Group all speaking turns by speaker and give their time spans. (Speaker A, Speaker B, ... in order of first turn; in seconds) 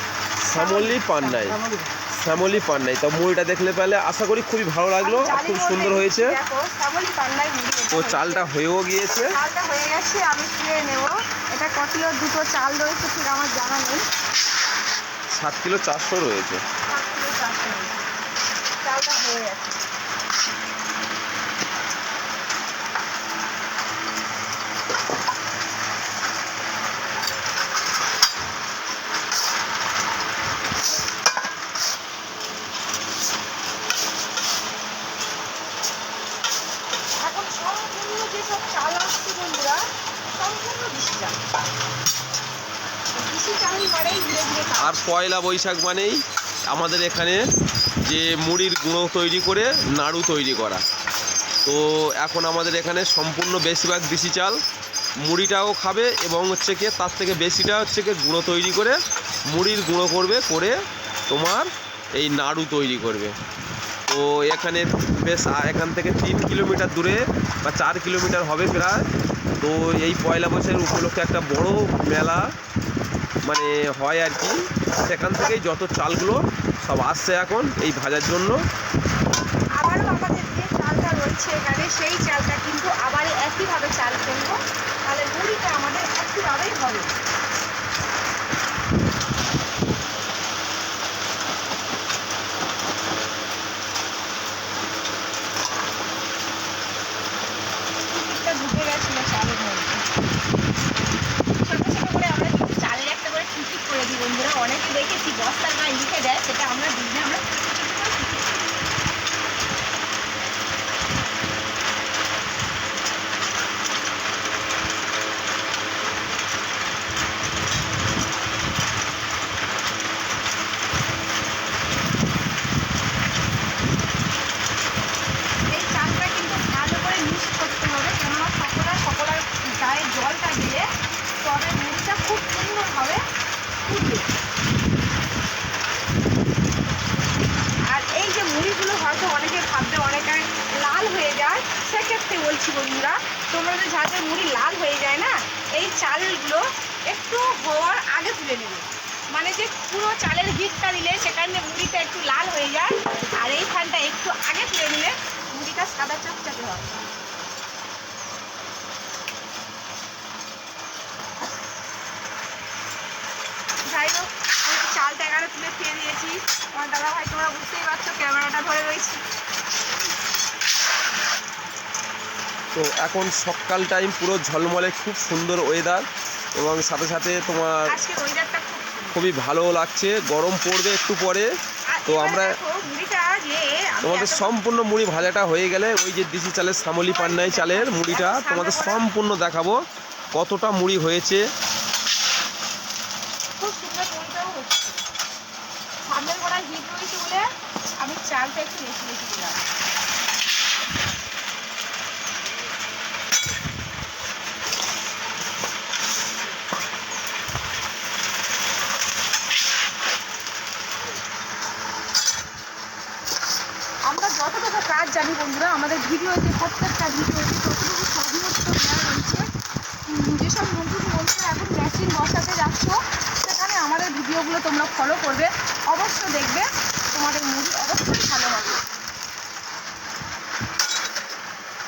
Speaker A: 0.4-1.9, 5.0-8.5, 9.3-14.0, 16.9-18.0, 18.8-19.8, 37.2-41.4, 43.1-45.0, 79.8-87.1, 98.1-100.1, 101.6-108.7, 125.7-130.9, 131.4-133.2, 133.8-134.3, 137.9-156.9, 163.9-169.2, 177.9-179.2, 181.9-184.6, 187.0-189.0, 193.6-195.0, 196.1-197.5, 198.0-199.6, 214.1-219.5, 220.1-228.8
Speaker B: 0.5-1.6, 2.1-6.4, 7.9-9.4, 15.3-16.6, 44.8-47.4, 48.0-50.8, 51.6-54.6, 55.2-60.8, 61.3-63.4, 64.1-72.5, 73.5-78.6, 172.7-177.9, 179.1-181.5, 182.1-182.5, 184.0-189.8, 190.3-191.4